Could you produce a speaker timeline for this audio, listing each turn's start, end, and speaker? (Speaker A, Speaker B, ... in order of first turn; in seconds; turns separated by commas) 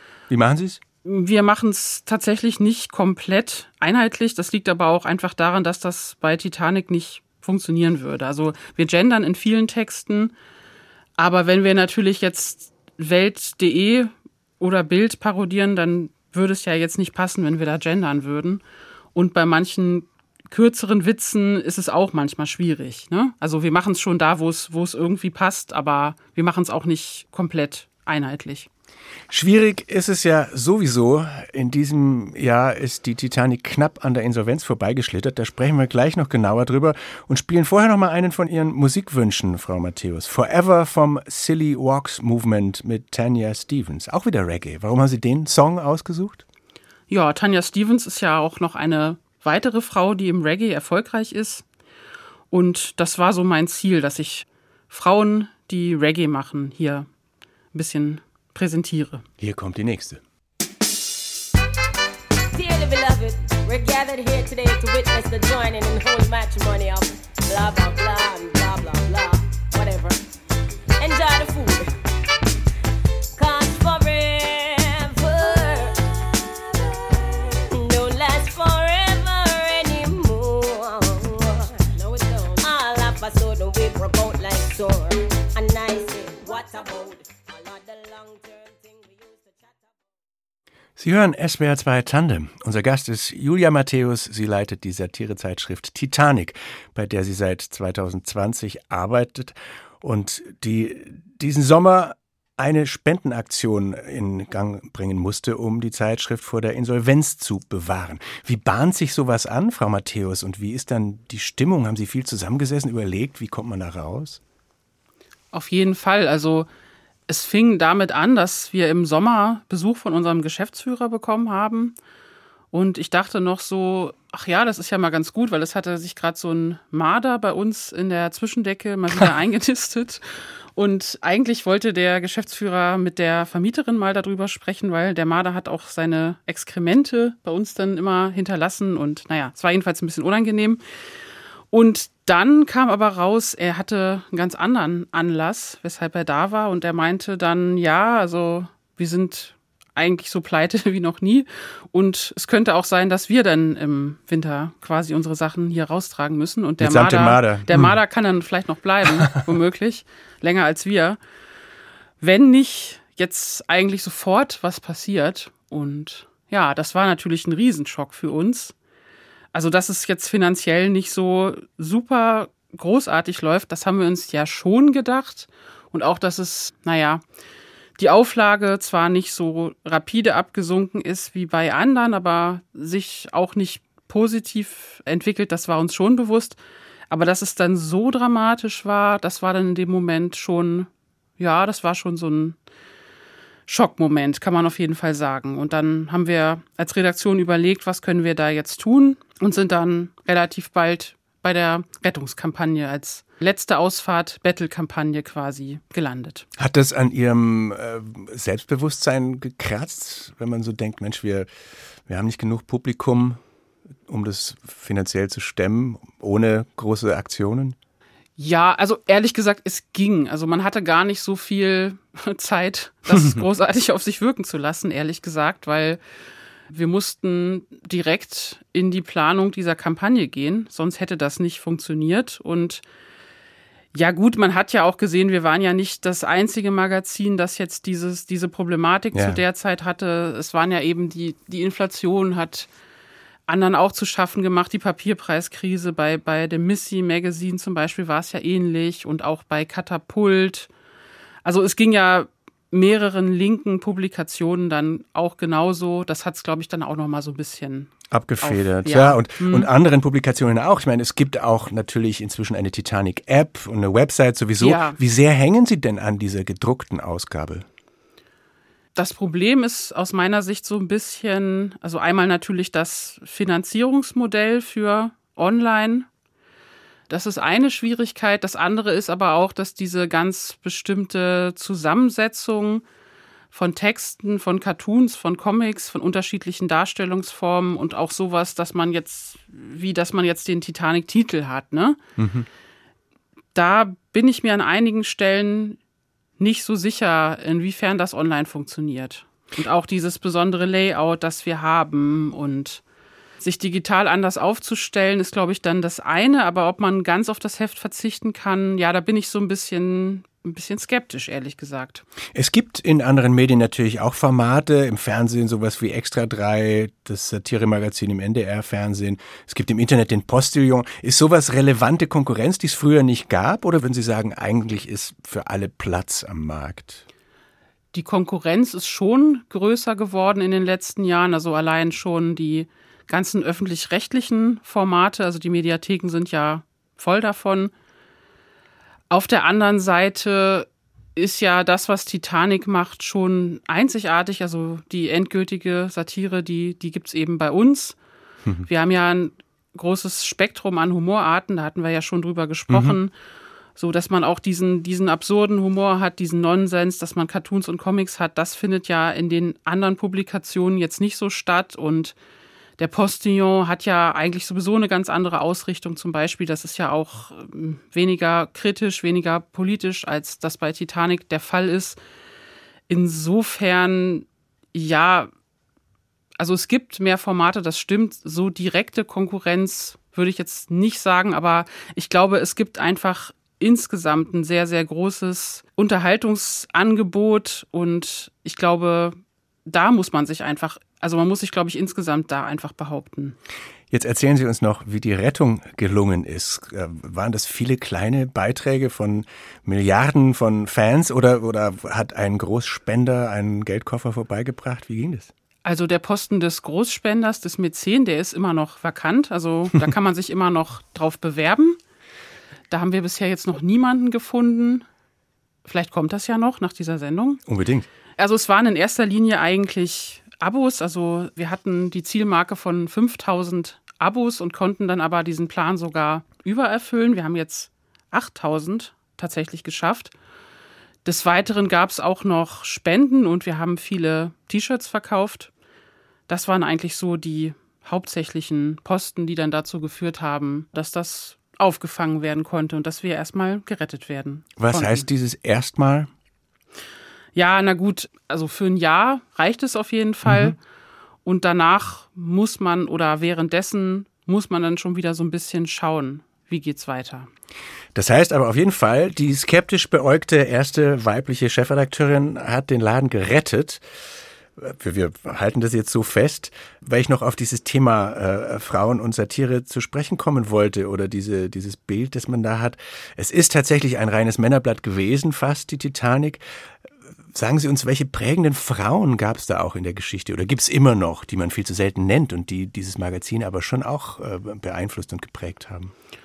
Speaker A: 0.3-0.8, Speaker B: 1.0-10.3, Speaker B: 11.2-18.6, Speaker B: 19.1-28.7, Speaker A: 29.3-46.4, Speaker B: 47.1-51.6, Speaker B: 52.5-57.1, Speaker B: 57.7-59.2, Speaker A: 59.4-60.2, Speaker C: 62.5-70.2, Speaker C: 71.0-71.9, Speaker C: 73.4-90.0, Speaker A: 91.0-114.4, Speaker B: 115.5-116.7, Speaker B: 117.3-121.9, Speaker B: 122.7-130.2, Speaker B: 130.8-140.8, Speaker B: 141.7-161.2, Speaker A: 156.8-157.9, Speaker B: 162.2-168.7, Speaker B: 169.5-177.2, Speaker B: 178.0-186.6, Speaker B: 187.1-192.6, Speaker B: 193.7-206.4, Speaker A: 206.6-211.5, Speaker A: 212.1-213.4, Speaker A: 214.1-217.8, Speaker B: 218.4-226.0, Speaker A: 223.1-223.4, Speaker B: 226.7-232.8, Speaker B: 233.9-242.7, Speaker A: 239.1-239.4, Speaker B: 243.5-250.7, Speaker B: 251.4-259.7, Speaker A: 258.1-267.6, Speaker B: 264.6-265.0, Speaker B: 268.9-276.1, Speaker B: 277.1-282.8, Speaker B: 283.5-292.0, Speaker A: 292.2-292.5, Speaker B: 293.6-295.8, Speaker B: 296.4-302.8, Speaker B: 303.4-312.1, Speaker A: 312.3-327.1, Speaker B: 327.9-337.7, Speaker B: 339.1-348.0, Speaker B: 348.6-353.1, Speaker A: 352.7-353.0, Speaker B: 353.8-362.1, Speaker B: 362.8-372.0, Speaker B: 372.9-375.3, Speaker B: 376.4-393.4, Speaker A: 393.9-405.3, Speaker B: 405.6-411.8, Speaker B: 412.7-414.9, Speaker B: 415.6-417.4, Speaker A: 417.5-417.9, Speaker B: 418.2-430.1, Speaker B: 431.1-435.5, Speaker B: 436.3-445.1, Speaker A: 444.6-446.1, Speaker B: 447.4-450.6, Speaker A: 450.3-450.6, Speaker B: 451.2-457.3, Speaker A: 457.9-463.8, Speaker A: 464.6-476.4, Speaker A: 477.3-485.9